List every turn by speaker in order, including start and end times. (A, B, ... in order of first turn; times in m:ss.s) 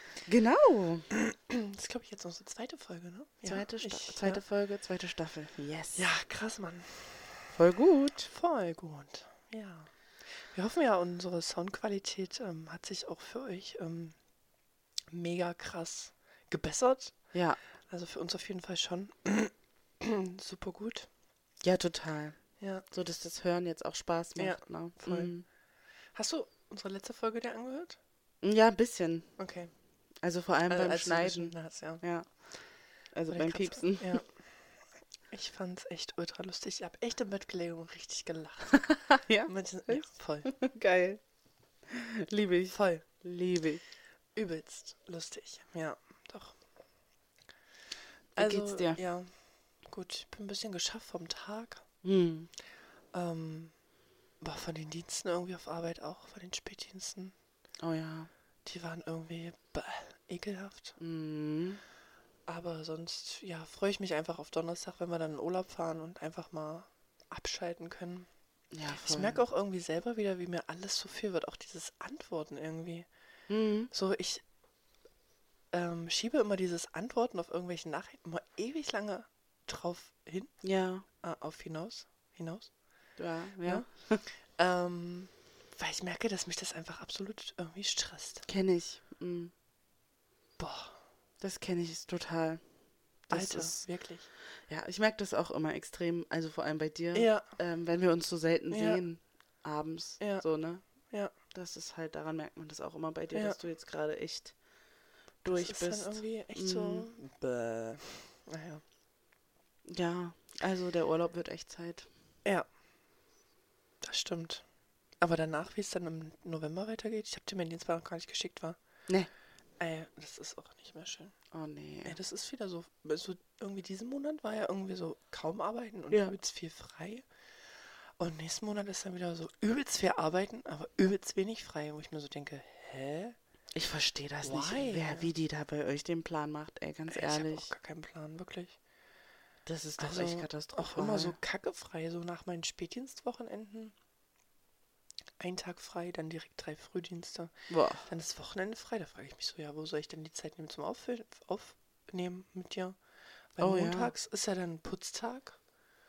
0:00.2-0:01.1 A
0:01.1-0:04.4 B
0:03.4-0:06.1 A
0:05.9-0:07.5 B
0:07.5-0:08.3 A
0:08.3-0:14.2 B
0:15.1-0:17.1 B
0:17.3-0:17.6 A
0:17.9-0:21.1 B
0:21.6-0:25.4 A
0:22.6-0:22.8 B
0:24.4-0:25.3 B
0:26.1-0:28.0 B
0:28.4-0:29.3 A
0:29.4-0:29.7 B
0:30.2-0:32.5 A
0:30.7-0:32.0 B
0:33.1-0:34.2 A
0:33.3-0:34.4 B
0:35.3-0:40.5 B
0:38.8-0:41.2 A
0:41.9-0:43.8 A
0:42.7-0:43.0 B
0:44.3-0:46.6 B
0:48.4-0:49.0 A
0:48.4-0:49.3 B
0:49.8-0:51.8 B
0:52.0-0:52.5 A
0:53.1-0:53.7 B
0:54.4-0:57.3 B
0:57.8-0:58.3 A
0:58.6-1:00.9 B
1:01.0-1:01.8 A
1:02.5-1:08.3 B
1:08.7-1:09.4 A
1:09.0-1:13.1 B
1:13.5-1:13.9 A
1:13.9-1:14.4 B
1:15.7-1:20.6 B
1:20.6-1:21.0 A
1:21.2-1:22.7 B
1:23.2-1:24.2 A
1:23.6-1:28.4 B
1:28.5-1:29.5 A
1:30.6-1:31.0 B
1:31.4-1:32.6 A
1:33.3-1:33.9 A
1:33.3-1:34.3 B
1:34.7-1:40.8 A
1:37.1-1:37.5 B
1:38.7-1:39.0 B
1:40.2-1:40.4 B
1:41.5-1:44.5 A
1:45.4-1:47.1 A
1:45.5-1:48.8 B
1:49.9-1:52.1 A
1:54.0-1:54.6 B
1:55.2-1:58.8 B
1:59.8-2:01.3 B
2:01.5-2:02.2 A
2:02.0-2:07.2 B
2:08.2-2:13.4 B
2:13.7-2:17.7 A
2:14.4-2:15.3 B
2:17.1-2:18.8 B
2:19.6-2:21.4 A
2:20.0-2:23.9 B
2:25.4-2:27.5 B
2:27.7-2:28.1 A
2:28.0-2:33.0 B
2:33.5-2:35.6 B
2:33.6-2:34.1 A